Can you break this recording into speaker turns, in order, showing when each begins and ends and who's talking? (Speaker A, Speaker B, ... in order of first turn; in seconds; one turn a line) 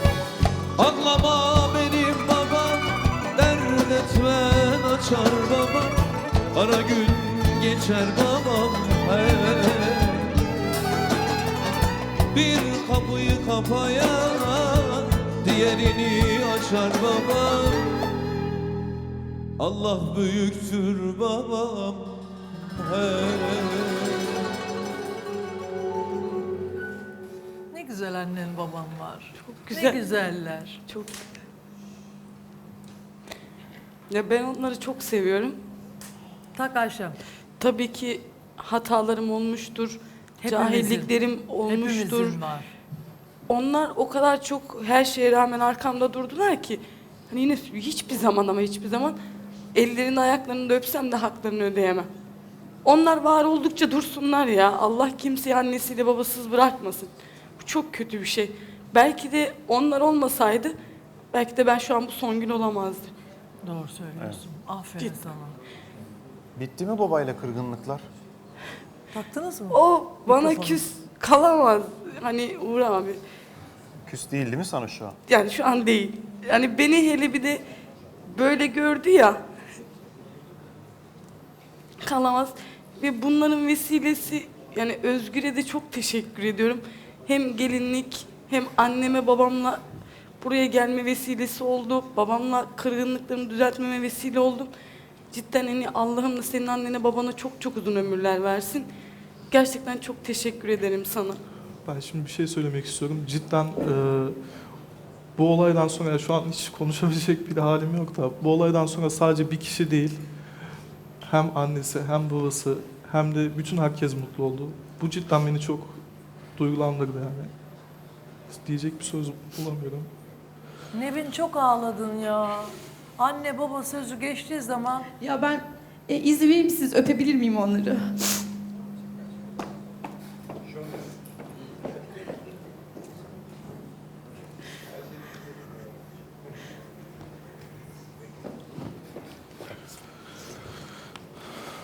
Speaker A: 0.8-10.4
Speaker A: 12.3-18.2
Speaker A: 19.6-24.4
Speaker B: 27.7-30.8
Speaker C: 29.4-30.0
Speaker C: 30.9-31.2
Speaker C: 34.1-35.6
Speaker B: 36.5-37.2
Speaker C: 37.6-42.4
Speaker B: 40.4-41.1
Speaker B: 41.6-42.7
Speaker C: 43.5-49.2
Speaker C: 49.8-52.1
Speaker C: 52.8-60.8
Speaker C: 61.3-63.1
Speaker B: 63.6-65.6
Speaker D: 66.6-68.1
Speaker B: 69.1-70.8
Speaker C: 69.7-73.2
Speaker D: 74.1-75.2
Speaker C: 75.3-77.6
Speaker C: 78.3-79.4
Speaker C: 82.0-89.8
Speaker C: 90.4-94.7
Speaker C: 95.3-98.9
Speaker C: 99.5-101.4
Speaker E: 101.9-104.4
Speaker E: 105.4-110.2
Speaker E: 111.2-116.0
Speaker E: 116.6-117.5
Speaker E: 118.5-120.1
Speaker B: 120.9-125.1
Speaker F: 125.2-128.2